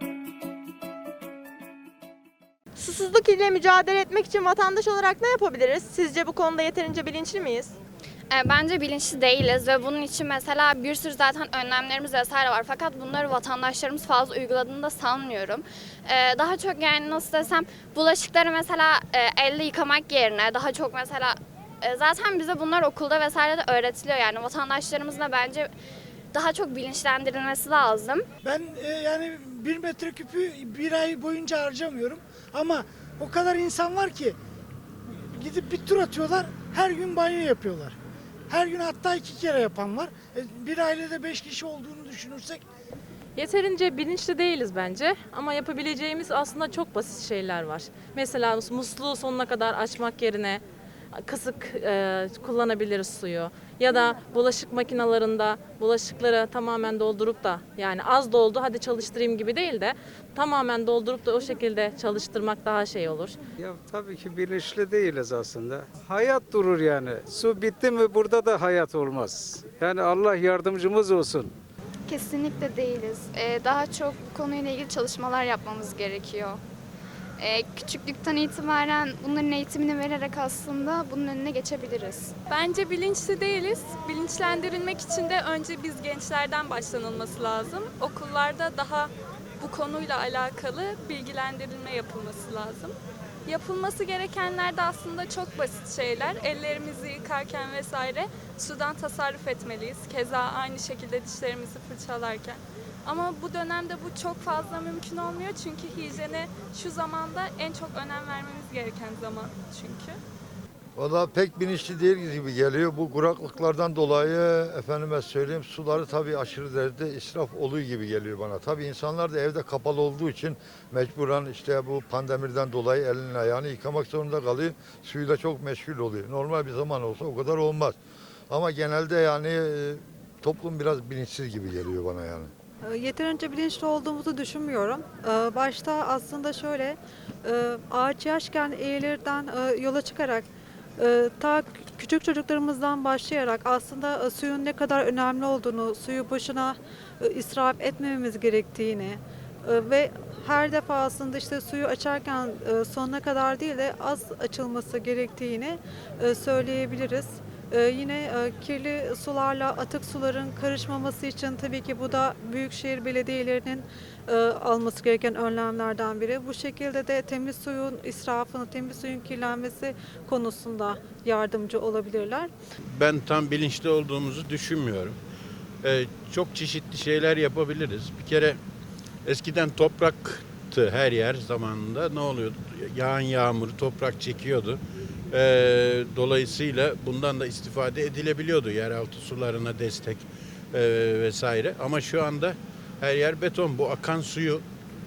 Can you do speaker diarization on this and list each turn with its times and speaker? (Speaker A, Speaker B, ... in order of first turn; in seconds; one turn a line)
Speaker A: 2.8-7.7
Speaker B: 8.3-25.7
Speaker B: 26.3-28.3
Speaker C: 28.4-34.4
Speaker C: 35.4-38.0
Speaker C: 38.5-42.6
Speaker D: 43.4-50.6
Speaker D: 51.2-63.4
Speaker E: 63.6-71.5
Speaker F: 72.1-76.6
Speaker F: 77.4-82.3
Speaker G: 82.5-110.2
Speaker H: 111.0-128.0
Speaker H: 128.5-132.5
Speaker I: 132.8-140.4
Speaker I: 141.0-172.5
Speaker J: 172.9-175.2
Speaker J: 175.8-178.6
Speaker J: 179.2-184.8
Speaker J: 185.3-194.6